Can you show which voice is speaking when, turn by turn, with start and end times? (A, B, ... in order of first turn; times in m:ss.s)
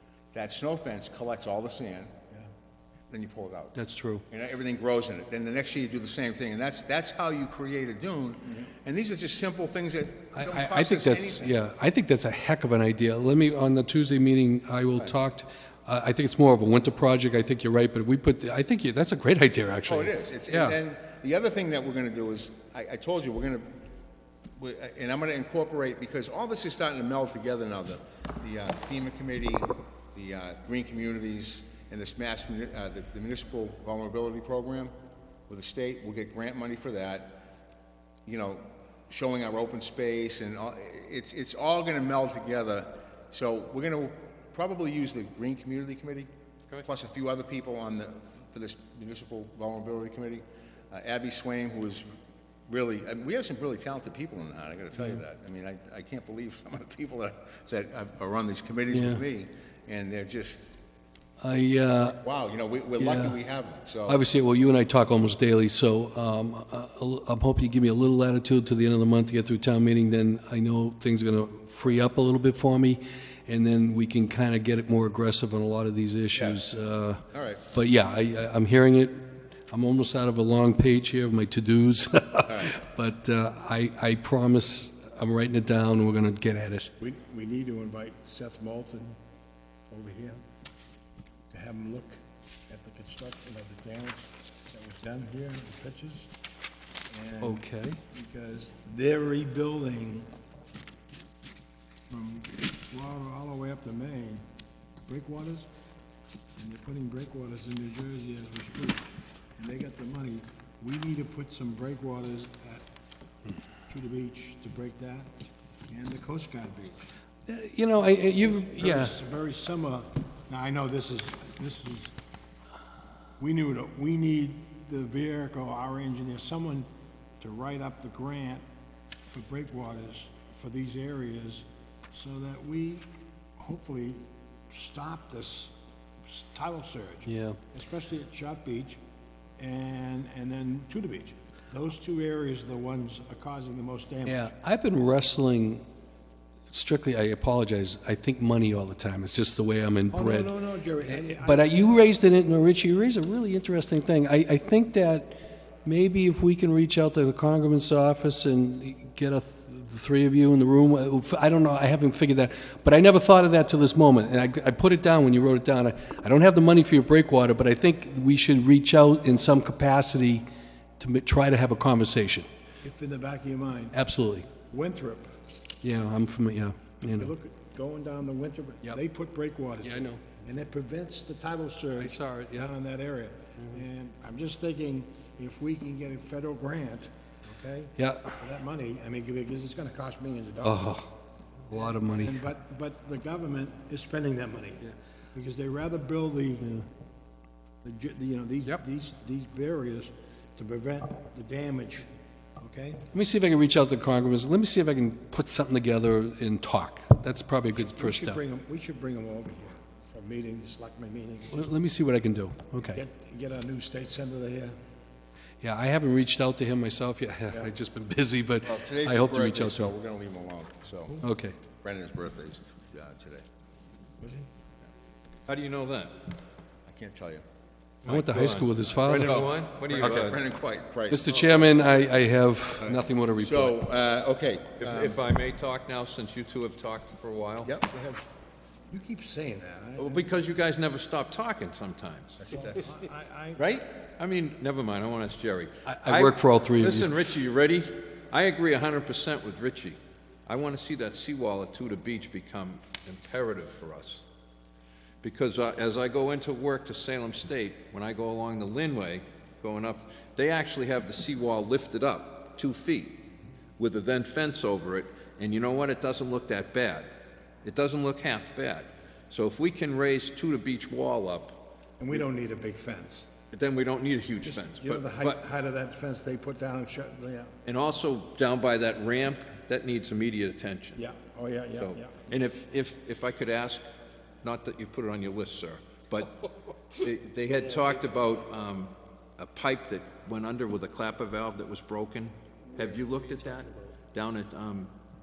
0:00.3-0:02.1 A
0:03.1-0:03.8 A
0:03.7-0:04.2 B
0:04.3-0:11.5 A
0:10.4-0:20.8 B
0:19.8-0:23.8 A
0:24.6-0:34.9 A
0:35.5-0:37.4 A
0:38.2-0:46.3 A
0:46.8-0:52.1 A
0:52.7-1:00.8 A
0:58.9-0:59.2 B
1:01.4-1:02.2 B
1:02.2-1:04.2 A
1:03.0-1:03.4 B
1:04.1-1:26.9 B
1:16.3-1:16.6 A
1:17.3-1:17.6 A
1:22.5-1:22.8 A
1:27.0-1:29.2 C
1:29.9-1:30.4 C
1:31.5-1:36.3 C
1:37.1-1:40.3 C
1:37.4-1:38.0 B
1:42.1-1:44.4 C
1:45.1-1:45.7 C
1:46.6-1:52.8 C
1:53.9-1:55.3 C
1:55.9-1:57.1 C
1:57.5-1:59.1 B
1:58.4-2:02.1 C
2:03.4-2:06.9 C
2:07.4-2:08.6 C
2:09.3-2:15.7 C
2:16.3-2:19.0 C
2:17.3-2:17.6 B
2:19.6-2:24.5 C
2:24.2-2:25.8 B
2:26.7-2:30.5 B
2:30.1-2:31.8 C
2:31.1-2:50.4 B
2:51.0-2:52.5 B
2:52.8-2:54.0 C
2:53.9-2:54.5 B
2:54.7-2:55.4 C
2:55.8-2:57.3 B
2:57.2-3:11.0 C
2:59.8-3:00.2 B
3:02.0-3:02.7 B
3:08.0-3:08.4 B
3:10.6-3:11.1 B
3:11.7-3:12.4 B
3:11.7-3:16.7 C
3:17.8-3:22.1 C
3:22.6-3:23.0 C
3:23.1-3:28.4 B
3:27.7-3:31.8 C
3:31.5-3:33.0 B
3:32.8-3:34.8 C
3:35.6-3:39.9 B
3:38.6-3:41.2 A
3:41.2-3:41.6 B
3:41.8-3:43.4 A
3:44.2-3:44.5 C
3:45.5-3:46.2 D
3:46.9-3:47.4 A
3:48.0-3:50.4 D
3:48.0-3:49.4 B
3:49.0-3:51.7 A
3:51.1-3:53.8 B
3:52.8-3:55.2 A
3:54.8-3:57.7 D
3:57.6-3:58.1 A
3:57.9-3:58.2 C
3:58.9-4:00.3 C
4:00.0-4:02.6 D
4:02.4-4:02.8 A
4:02.5-4:03.6 C
4:03.6-4:14.2 D
4:05.9-4:07.2 B
4:15.2-4:23.2 D
4:23.8-4:27.1 D
4:27.6-4:31.6 D
4:32.0-4:33.3 C
4:33.5-4:35.4 D
4:34.4-4:37.5 C
4:37.6-4:41.0 D
4:41.0-4:42.3 C
4:41.8-4:43.8 D
4:44.4-4:46.4 D
4:47.0-4:54.9 D